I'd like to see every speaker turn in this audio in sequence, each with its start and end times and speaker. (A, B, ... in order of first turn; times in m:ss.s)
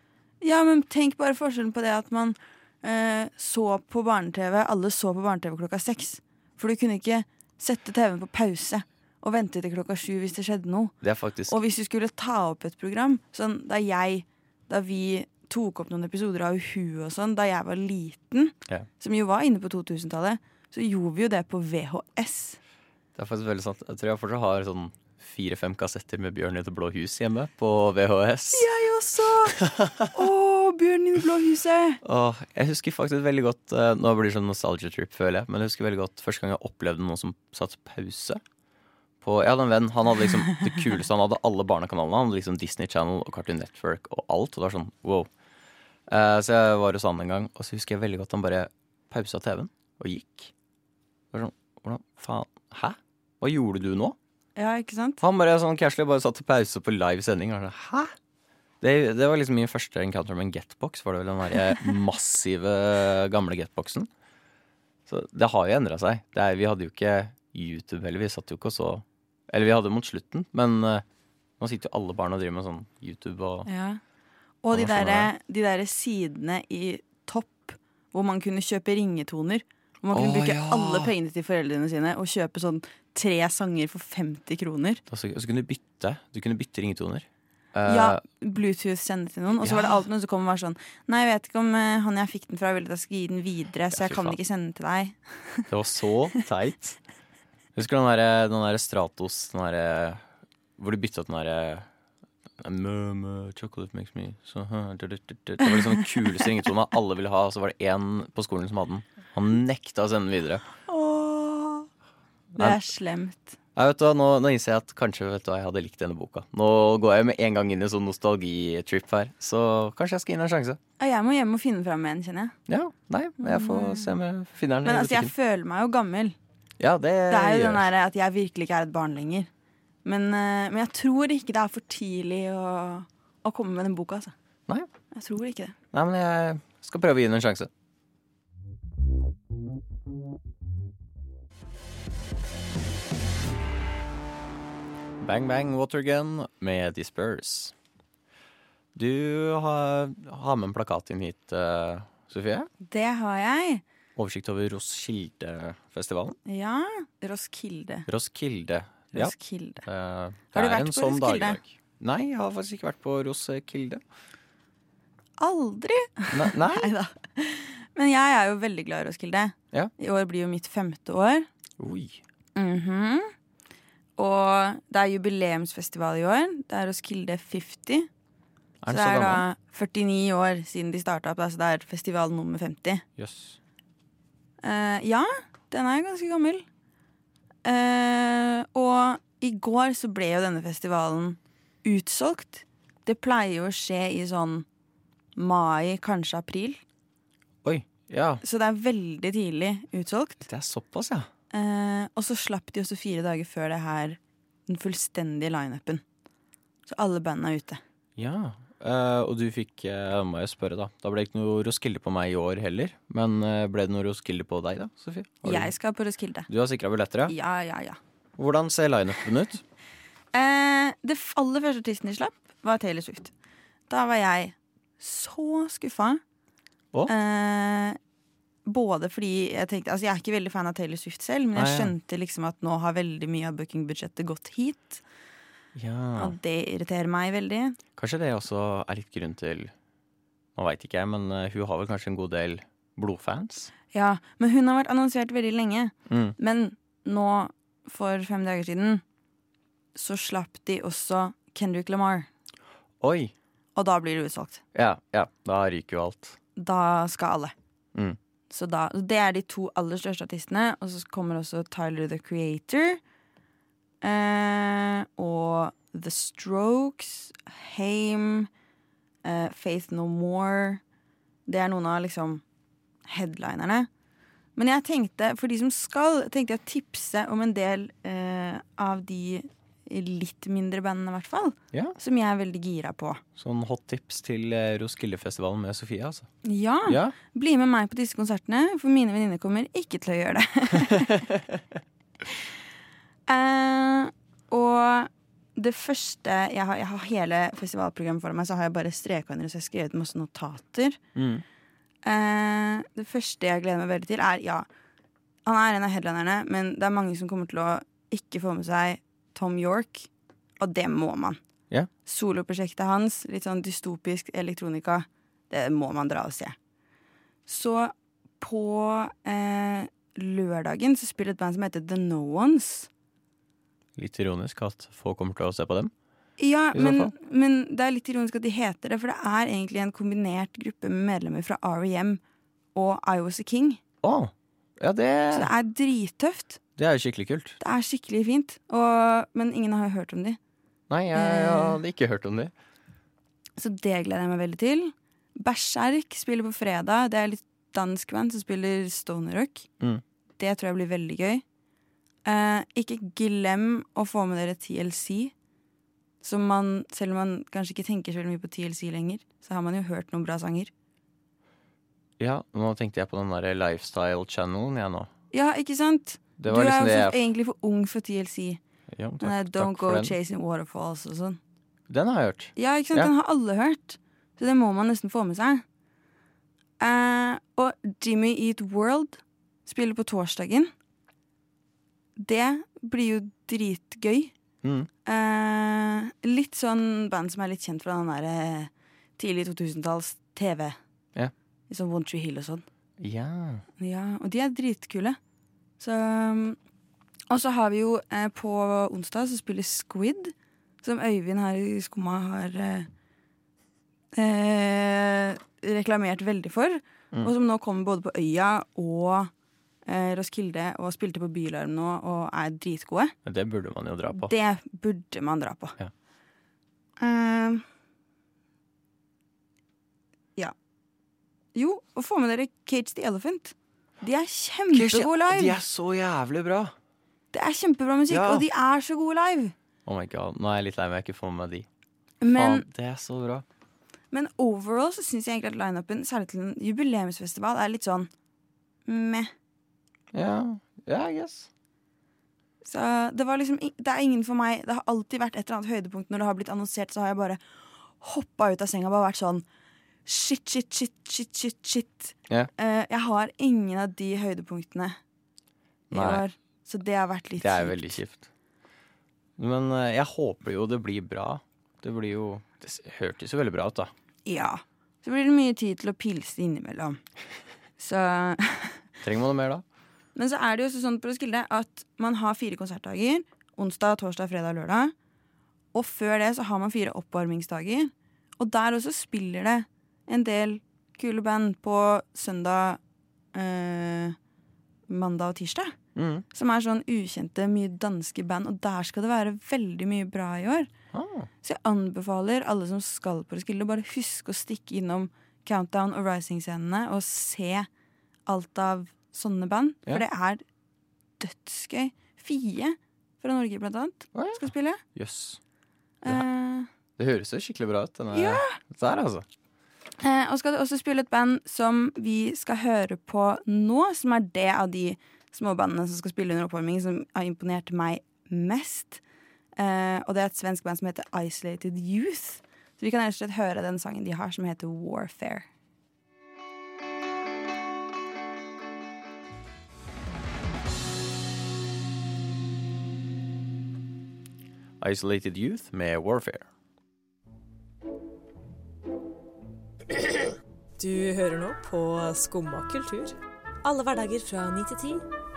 0:00.4-0:11.0 A
0:11.0-0:11.5 B
0:11.5-0:22.6 A
0:23.1-0:28.6 B
0:28.5-0:32.0 A
0:29.6-0:30.2 B
0:32.0-0:38.4 B
0:39.2-0:45.3 B
0:46.1-0:50.5 B
0:51.3-0:54.2 B
0:54.6-0:55.2 A
0:55.2-0:58.1 B
0:58.8-1:04.1 B
1:05.1-1:11.0 B
1:11.6-1:13.7 B
1:13.6-1:14.0 A
1:14.6-1:25.0 A
1:14.7-1:15.3 B
1:20.1-1:21.1 B
1:25.1-1:28.2 B
1:27.8-1:35.7 A
1:29.6-1:30.0 B
1:33.9-1:34.4 B
1:35.7-1:37.0 B
1:37.8-1:40.2 B
1:40.8-1:41.9 B
1:42.6-1:50.6 B
1:50.8-1:51.9 A
1:52.5-1:52.8 B
1:52.6-1:53.6 A
1:53.8-2:00.8 B
2:01.0-2:02.5 A
2:02.7-2:05.3 B
2:03.4-2:04.2 A
2:04.8-2:06.4 A
2:06.8-2:07.9 B
2:07.3-2:09.5 A
2:10.0-2:14.3 A
2:15.1-2:15.8 A
2:15.9-2:17.7 B
2:25.2-2:27.8 B
2:28.9-2:32.7 B
2:32.9-2:33.8 A
2:34.2-2:36.4 B
2:36.4-2:38.1 A
2:38.1-2:44.0 B
2:39.1-2:39.8 A
2:40.5-2:41.6 A
2:45.4-2:51.5 A
2:46.3-2:46.9 B
2:51.8-2:52.2 B
2:52.6-2:53.3 A
2:54.2-2:58.1 A
2:58.8-2:59.4 B
2:58.9-3:03.0 A
3:03.2-3:03.6 B
3:04.6-3:06.6 A
3:07.6-3:14.7 A
3:15.4-3:16.8 A
3:17.6-3:18.4 B
3:18.4-3:20.5 A
3:20.4-3:21.3 B
3:21.5-3:26.0 A
3:26.9-3:27.8 A
3:28.2-3:35.7 B
3:35.4-3:36.5 A
3:36.5-3:37.3 B
3:37.3-3:38.0 A
3:38.4-3:39.6 B
3:40.3-3:43.3 A
3:43.9-3:46.2 A
3:47.1-3:48.0 A
3:48.6-3:55.0 A
3:51.6-3:51.9 B
3:55.8-3:56.4 B
3:56.2-3:57.8 A
3:58.0-3:59.7 B
4:00.6-4:03.7 B
4:03.9-4:09.0 A
4:06.1-4:06.3 B
4:09.9-4:12.3 A
4:13.0-4:13.3 B
4:13.8-4:14.6 A
4:14.7-4:16.4 B
4:16.6-4:17.5 A
4:18.5-4:23.0 A
4:24.0-4:28.5 A
4:29.2-4:30.8 A
4:31.4-4:32.4 A
4:33.1-4:33.9 A
4:34.6-4:43.2 A
4:43.4-4:46.3 B
4:46.4-4:51.2 A
4:46.8-4:47.1 B
4:51.3-4:51.6 B
4:53.3-5:01.0 A
5:01.1-5:01.4 B
5:02.0-5:04.7 A
5:05.4-5:10.1 A
5:10.6-5:11.4 A
5:12.0-5:16.6 A
5:17.5-5:22.9 A
5:24.0-5:25.9 B
5:26.4-5:32.2 A
5:26.7-5:27.1 B
5:32.8-5:33.8 A
5:34.0-5:35.5 B
5:35.3-5:36.6 A
5:36.8-5:37.6 B
5:37.6-5:40.4 A
5:40.9-5:42.5 B
5:41.1-5:41.8 A
5:43.6-5:49.7 A
5:50.4-5:51.4 A
5:52.2-5:55.3 A
5:56.2-6:00.7 A
6:02.2-6:05.1 B
6:05.3-6:08.6 A
6:06.4-6:07.2 B
6:08.9-6:10.2 B
6:09.2-6:11.4 A
6:11.9-6:13.1 B
6:12.6-6:15.6 A
6:16.8-6:20.7 A
6:22.2-6:24.3 A
6:24.6-6:24.9 B
6:25.0-6:30.8 A
6:31.7-6:32.6 A
6:33.0-6:33.6 B
6:33.8-6:35.2 A
6:35.8-6:36.6 A
6:37.3-6:42.9 A
6:44.1-6:49.3 A
6:49.8-6:53.2 A
6:53.2-6:54.3 B
6:54.1-6:55.8 A
6:57.0-6:57.6 A
7:01.5-7:05.6 A
7:04.7-7:06.8 B
7:07.3-7:09.5 A
7:08.1-7:08.4 B
7:09.8-7:11.7 B
7:12.2-7:12.6 A
7:12.3-7:13.4 B
7:14.1-7:18.1 A
7:18.9-7:19.3 A
7:20.1-7:21.5 B
7:22.6-7:27.4 A
7:28.0-7:29.4 A
7:30.0-7:35.0 A
7:35.9-7:38.0 A
7:35.9-7:36.2 B
7:37.4-7:38.3 B
7:39.4-7:43.9 B
7:44.2-7:47.0 A
7:47.8-7:48.8 A
7:49.0-7:49.6 B
7:50.1-7:54.9 A
7:55.7-8:02.8 A
8:03.3-8:04.2 A
8:04.9-8:05.8 A
8:06.0-8:06.2 B
8:06.3-8:10.7 A
8:10.9-8:11.3 B
8:11.4-8:17.7 A
8:18.2-8:20.4 A
8:21.2-8:24.8 A
8:24.1-8:25.4 B
8:26.0-8:26.7 A
8:27.0-8:29.2 B
8:28.1-8:28.6 A
8:30.0-8:39.0 A
8:39.6-8:45.5 A
8:54.8-8:56.5 B
9:00.8-9:05.0 C